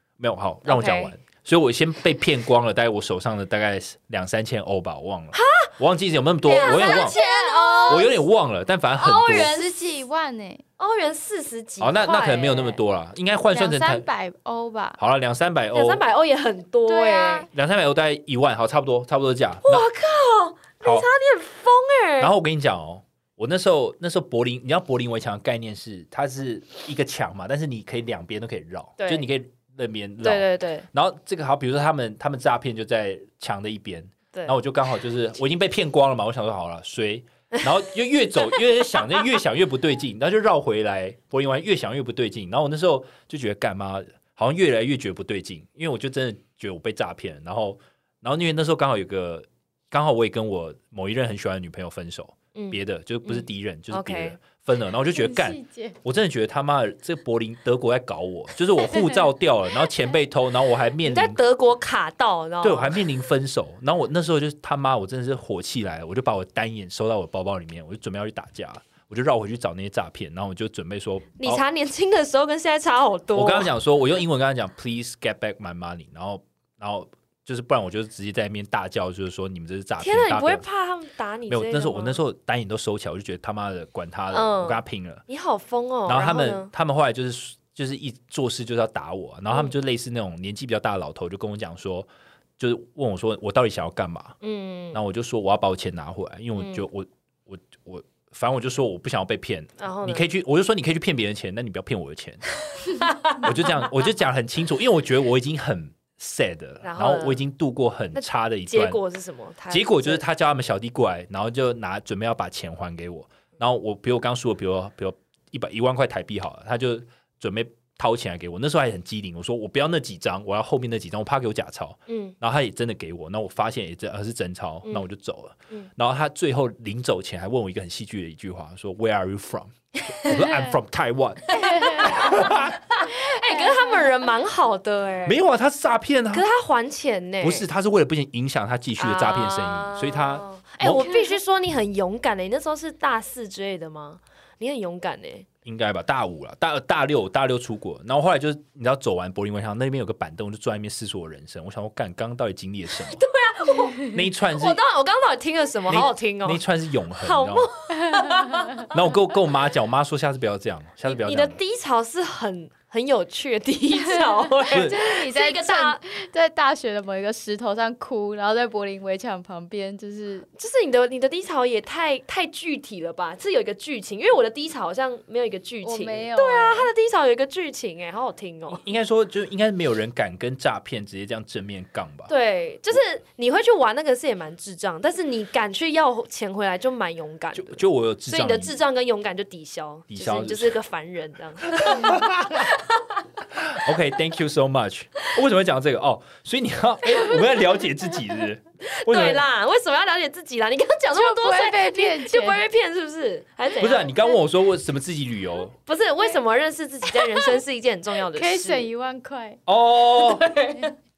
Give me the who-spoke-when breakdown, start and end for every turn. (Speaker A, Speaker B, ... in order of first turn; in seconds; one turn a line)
Speaker A: 0.2-7.1
Speaker B: 0.6-1.1
Speaker B: 5.3-5.7
Speaker B: 6.5-8.1
Speaker C: 6.6-8.1
Speaker A: 7.9-9.5
Speaker B: 9.0-9.8
Speaker C: 9.3-10.6
Speaker B: 10.8-12.8
Speaker A: 11.8-14.1
Speaker C: 13.5-15.0
Speaker A: 15.0-16.0
Speaker B: 15.7-17.5
Speaker C: 16.9-17.5
Speaker A: 17.5-19.9
Speaker B: 19.6-22.3
Speaker A: 20.8-21.1
Speaker A: 22.2-61.4
Speaker B: 29.0-29.3
Speaker B: 30.2-30.9
Speaker B: 34.3-34.6
Speaker B: 52.5-54.4
Speaker C: 55.1-56.0
Speaker C: 58.9-59.2
Speaker B: 61.0-63.0
Speaker A: 62.6-71.6
Speaker B: 71.4-73.7
Speaker A: 73.3-80.6
Speaker B: 80.0-82.2
Speaker A: 81.5-85.2
Speaker B: 84.3-86.7
Speaker A: 86.1-94.4
Speaker B: 94.4-95.0
Speaker A: 94.9-102.6
Speaker B: 96.6-96.8
Speaker B: 99.8-100.2
Speaker B: 102.9-103.5
Speaker A: 103.3-109.0
Speaker B: 106.8-107.4
Speaker B: 108.1-110.2
Speaker A: 109.7-132.8
Speaker B: 122.1-122.3
Speaker B: 130.1-130.4
Speaker B: 131.5-135.4
Speaker C: 131.6-132.4
Speaker C: 133.1-134.1
Speaker A: 135.2-136.5
Speaker B: 136.3-137.7
Speaker A: 137.4-141.1
Speaker B: 139.0-145.5
Speaker C: 141.0-141.3
Speaker A: 145.6-153.2
Speaker B: 153.1-158.9
Speaker A: 154.1-154.8
Speaker A: 155.9-157.7
Speaker C: 158.1-158.5
Speaker A: 158.9-161.6
Speaker B: 161.1-166.0
Speaker C: 164.0-170.5
Speaker A: 164.7-165.0
Speaker B: 170.6-178.8
Speaker C: 175.8-176.9
Speaker A: 178.7-182.3
Speaker B: 182.3-193.2
Speaker A: 187.5-188.8
Speaker A: 190.1-190.8
Speaker A: 191.8-192.7
Speaker A: 193.5-199.4
Speaker B: 198.9-204.1
Speaker C: 201.1-202.6
Speaker A: 203.8-205.7
Speaker B: 205.8-208.8
Speaker C: 208.3-209.6
Speaker A: 209.7-210.5
Speaker B: 210.2-210.9